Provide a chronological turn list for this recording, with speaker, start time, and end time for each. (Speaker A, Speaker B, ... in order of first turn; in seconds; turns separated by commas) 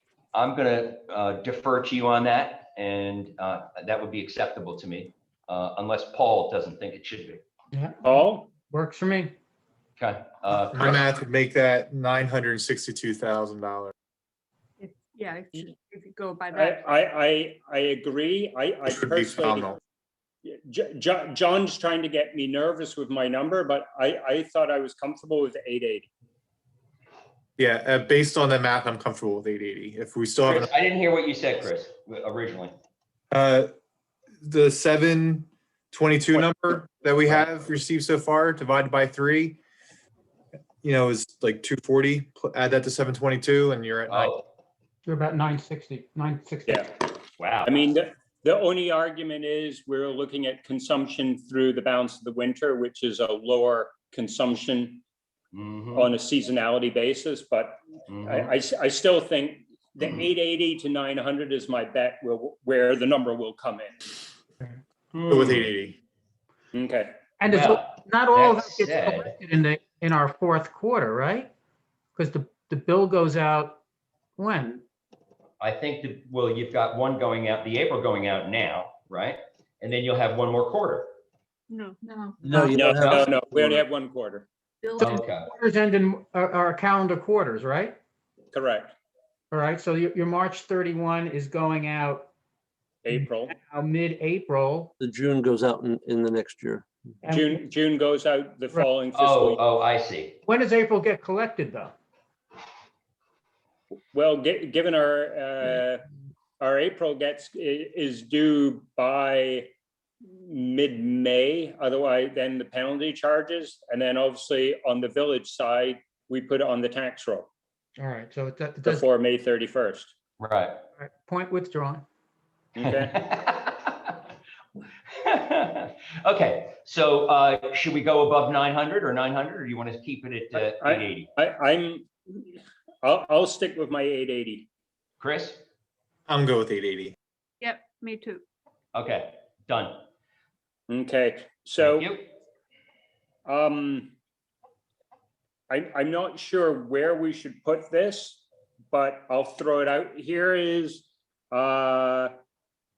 Speaker A: 0.3-7.4, Speaker B: 7.7-9.3, Speaker C: 8.0-8.5, Speaker A: 10.0-11.0, Speaker D: 10.7-13.9, Speaker E: 14.8-16.9, Speaker C: 16.5-19.8, Speaker D: 18.9-19.8, Speaker C: 20.4-26.1, Speaker D: 27.6-30.7, Speaker A: 30.4-32.7, Speaker D: 33.3-33.7, Speaker D: 34.4-39.6, Speaker D: 40.8-44.4, Speaker A: 44.1-44.4, Speaker B: 45.0-46.9, Speaker C: 46.7-46.9, Speaker A: 47.4-47.7, Speaker C: 47.6-55.0, Speaker A: 55.5-56.1, Speaker C: 55.9-63.9, Speaker A: 58.1-58.5, Speaker C: 65.1-65.7, Speaker D: 65.3-66.0, Speaker C: 66.7-67.1, Speaker B: 67.4-71.5, Speaker A: 67.5-69.3, Speaker B: 72.1-73.8, Speaker B: 74.4-74.8, Speaker A: 75.6-81.1, Speaker F: 82.4-83.8, Speaker C: 82.7-84.5, Speaker E: 84.8-85.3, Speaker A: 85.0-85.5, Speaker B: 85.0-88.0, Speaker C: 88.5-88.9, Speaker B: 89.5-92.3, Speaker C: 93.0-93.5, Speaker B: 93.1-94.9, Speaker F: 95.0-96.9, Speaker B: 97.2-97.6, Speaker C: 97.3-99.6, Speaker A: 99.1-100.4, Speaker B: 100.4-101.9, Speaker C: 104.1-106.0, Speaker C: 106.6-109.7, Speaker C: 110.2-117.5, Speaker B: 118.0-119.0, Speaker C: 118.8-120.1, Speaker A: 120.4-120.8, Speaker B: 121.0-122.0, Speaker C: 122.7-123.1, Speaker A: 122.8-124.2, Speaker A: 125.1-131.3, Speaker C: 130.5-134.7, Speaker A: 135.2-135.6, Speaker D: 136.3-137.1, Speaker E: 137.6-138.4, Speaker A: 138.9-140.0, Speaker C: 140.9-142.1, Speaker A: 141.8-142.3, Speaker C: 143.4-144.1, Speaker C: 145.7-152.3